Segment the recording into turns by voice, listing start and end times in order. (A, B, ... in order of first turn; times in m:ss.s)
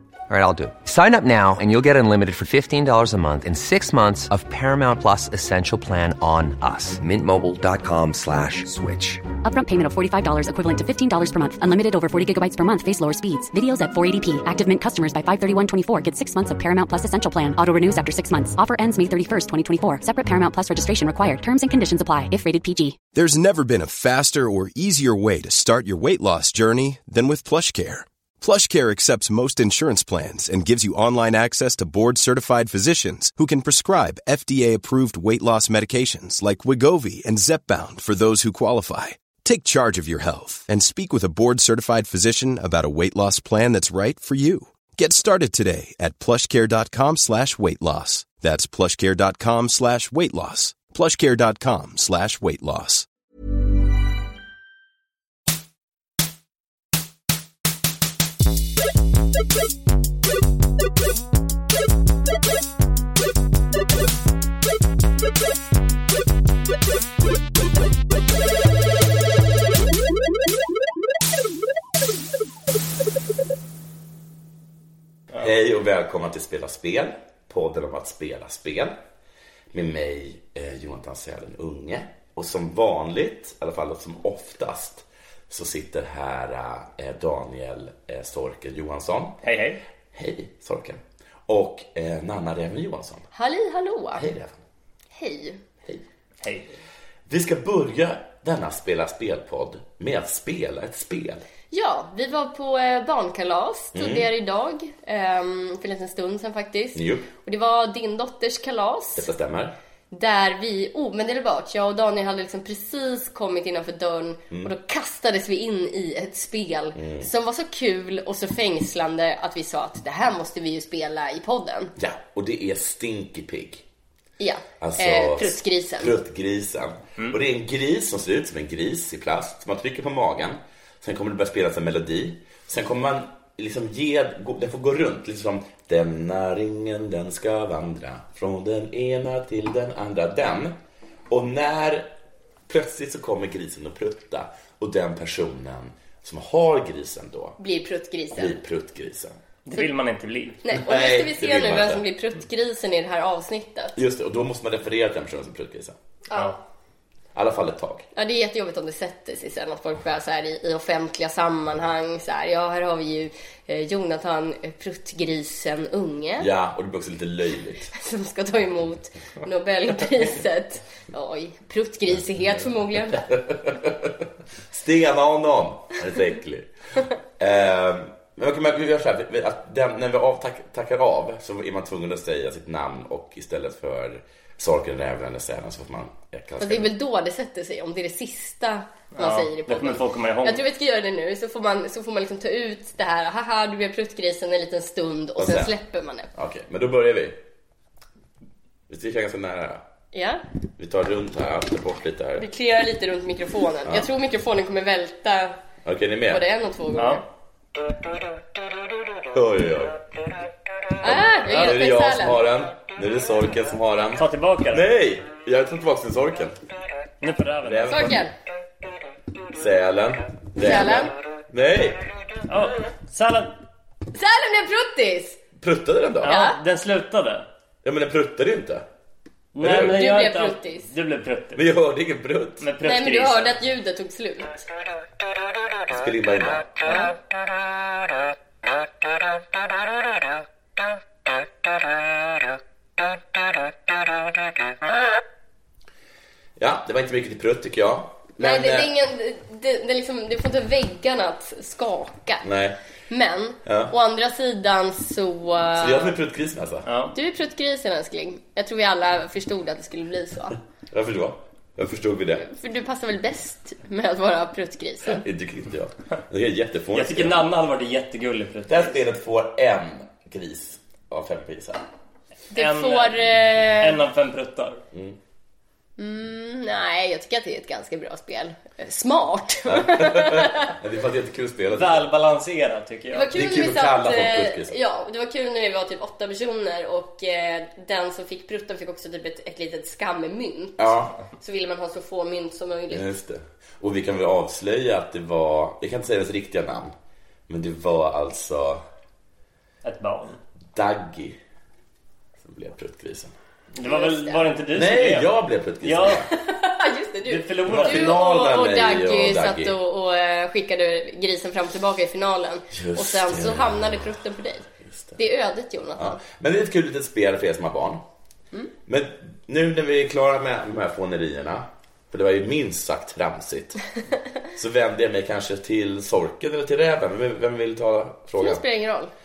0:00.3-0:09.2 A
0:09.4-0:23.0 B
0:23.1-0:53.1 C
1:15.3-1:19.0 D
1:19.7-1:29.4 D
1:29.4-1:29.8 E
1:30.1-1:33.3 D
1:33.3-1:34.2 F
1:34.1-1:34.6 D
1:35.1-1:35.6 F
1:36.4-1:36.8 E
1:37.3-1:41.4 D
1:41.7-1:49.3 F
1:43.9-1:44.3 D
1:46.9-1:47.3 D
1:49.2-1:49.8 D
1:50.1-2:01.9 F
1:57.0-1:57.3 D
2:02.0-2:03.8 D
2:04.4-2:06.1 F
2:04.8-2:20.8 D
2:21.3-2:22.1 D
2:22.7-2:27.6 D
2:27.6-2:28.6 F
2:28.3-2:29.4 D
2:29.7-2:30.6 E
2:30.6-2:34.0 F
2:30.7-2:32.0 D
2:34.0-2:36.0 D
2:36.3-2:36.6 F
2:37.3-2:38.1 D
2:38.2-2:46.5 F
2:46.4-2:47.9 D
2:47.9-2:53.2 F
2:53.1-2:56.7 D
2:57.4-3:06.9 D
3:06.6-3:16.3 F
3:09.2-3:10.6 E
3:15.4-3:15.7 D
3:16.3-3:17.4 D
3:18.9-3:19.8 D
3:20.1-3:20.4 F
3:20.8-3:22.5 D
3:22.4-3:25.6 F
3:25.8-3:26.4 D
3:26.3-3:27.2 F
3:27.0-3:27.2 E
3:29.3-3:30.1 D
3:31.0-3:36.6 D
3:31.0-3:32.4 F
3:34.2-3:34.8 E
3:37.2-3:38.2 E
3:37.6-3:38.2 D
3:37.9-3:38.3 F
3:39.5-3:42.0 D
3:40.6-3:41.1 F
3:42.5-3:43.6 E
3:44.1-3:45.4 F
3:45.6-3:46.4 D
3:46.2-3:47.5 E
3:46.2-3:46.6 F
3:47.8-3:48.8 D
3:49.5-3:51.6 E
3:49.6-3:50.0 D
3:49.8-3:50.9 F
3:51.5-3:52.7 D
3:52.6-3:53.6 E
3:52.8-3:54.7 F
3:55.9-3:56.8 D
3:56.8-3:57.1 F
4:06.6-4:08.9 D
4:08.4-4:12.5 F
4:12.4-4:12.8 D
4:13.1-4:16.1 F
4:13.6-4:13.9 D
4:15.8-4:16.9 D
4:16.9-4:17.1 E
4:17.1-4:20.6 F
4:20.9-4:22.5 D
4:22.4-4:25.2 F
4:25.0-4:27.4 D
4:26.9-4:29.0 E
4:28.7-4:31.8 D
4:32.5-4:34.0 F
4:32.5-4:34.8 E
4:36.0-4:40.8 F
4:39.6-4:42.1 D
4:41.7-4:43.3 E
4:43.1-4:53.1 F
4:43.3-4:44.8 D
4:50.8-4:51.2 D
4:52.9-4:56.9 D
4:57.5-4:58.8 D
4:59.8-5:00.4 E
5:00.7-5:01.4 D
5:02.4-5:03.3 D
5:03.7-5:06.2 E
5:03.8-5:04.4 F
5:04.7-5:06.3 D
5:06.3-5:16.2 F
5:07.2-5:08.2 E
5:07.6-5:09.8 D
5:12.7-5:14.1 D
5:14.9-5:15.2 D
5:16.0-5:18.0 D
5:18.9-5:23.8 D
5:24.6-5:28.6 D
5:28.4-5:29.1 F